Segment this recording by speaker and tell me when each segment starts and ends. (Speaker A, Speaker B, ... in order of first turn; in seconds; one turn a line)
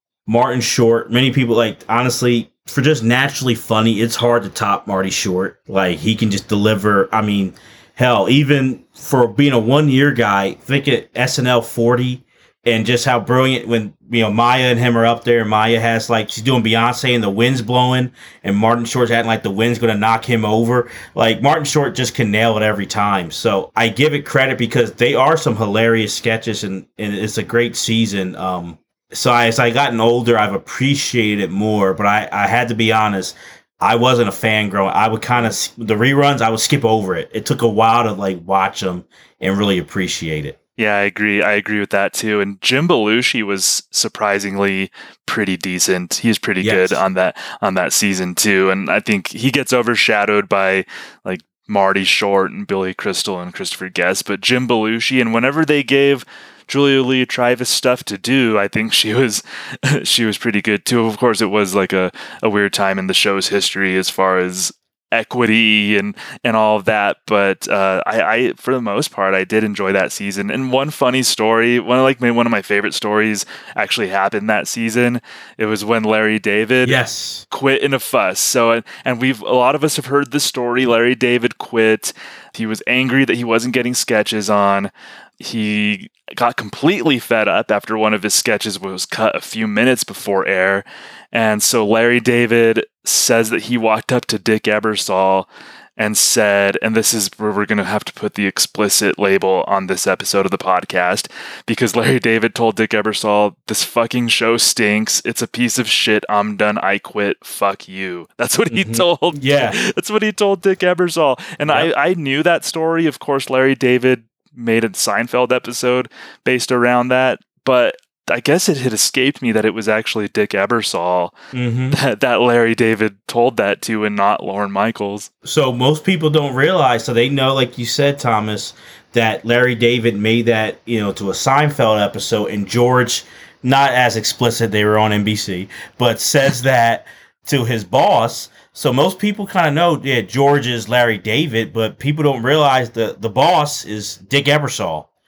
Speaker A: 0.3-40.6
Speaker B: 40.8-77.0
Speaker A: 46.6-47.0
Speaker A: 76.8-77.5
Speaker B: 77.5-121.3
Speaker A: 108.7-109.8
Speaker A: 121.5-122.0
Speaker B: 121.9-125.3
Speaker A: 125.5-145.1